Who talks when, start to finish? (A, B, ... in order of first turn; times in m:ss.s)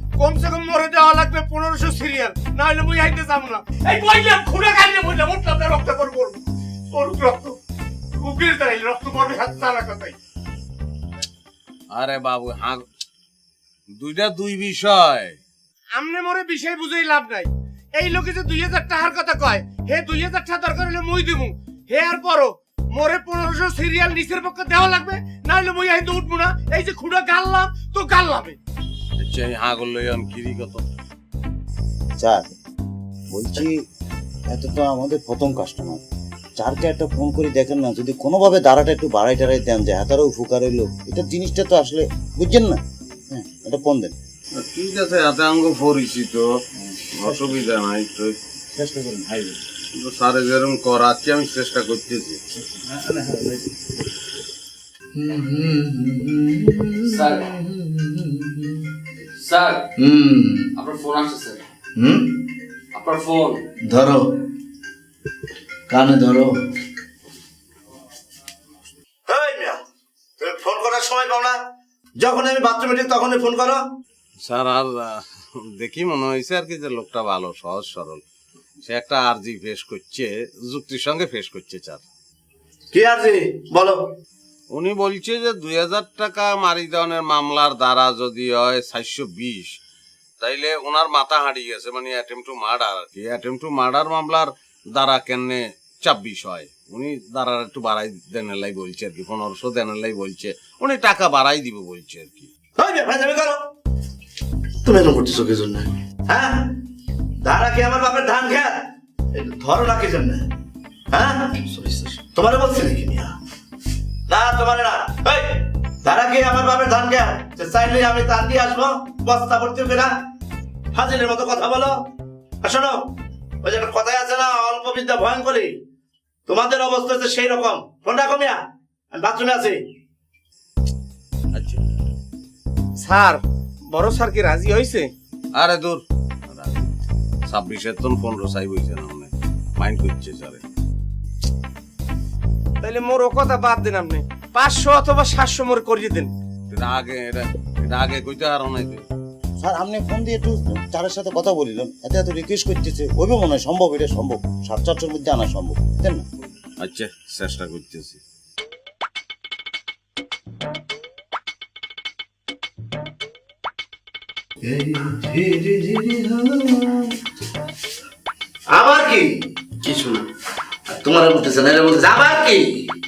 0:00.2-0:06.4 A
0:06.9-0:07.6 A
0:08.2-0:10.2 A
0:11.9-0:12.8 B
0:13.9-0:15.4 B
0:15.9-0:28.6 A
0:29.2-0:30.8 B
0:32.2-0:32.5 C
0:33.3-0:33.8 C
0:34.5-0:36.0 C
0:36.6-0:42.8 C
0:43.3-0:44.1 C
0:44.6-0:46.5 B
0:46.9-0:47.5 C
0:47.1-0:48.3 B
0:48.7-0:49.6 C
0:49.9-0:52.4 B
0:52.6-0:53.7 C
0:55.2-0:58.5 D
0:57.0-0:57.5 E
0:59.2-0:59.9 E
1:00.0-1:00.7 D
1:00.7-1:01.6 E
1:02.0-1:02.3 D
1:02.9-1:03.6 E
1:03.9-1:04.2 D
1:05.9-1:06.5 D
1:09.3-1:09.8 D
1:10.4-1:11.6 D
1:12.2-1:13.8 D
1:14.4-1:18.2 B
1:18.8-1:22.0 B
1:22.9-1:24.0 D
1:24.7-1:29.8 B
1:30.4-1:42.5 B
1:42.8-1:43.6 D
1:44.8-1:46.6 D
1:47.4-1:48.8 D
1:49.3-1:50.5 D
1:51.1-1:51.5 D
1:51.7-1:52.2 E
1:52.3-1:53.3 D
1:54.3-2:00.1 D
2:00.9-2:02.0 D
2:02.6-2:03.0 D
2:03.6-2:05.7 D
2:06.5-2:08.6 D
2:09.1-2:09.8 D
2:11.5-2:11.8 B
2:13.0-2:15.1 A
2:15.6-2:16.9 B
2:17.5-2:20.6 B
2:22.8-2:26.3 A
2:26.7-2:29.0 B
2:29.6-2:36.2 C
2:36.8-2:38.2 B
2:44.6-2:47.1 D
2:48.7-2:50.2 D
2:50.9-2:52.8 D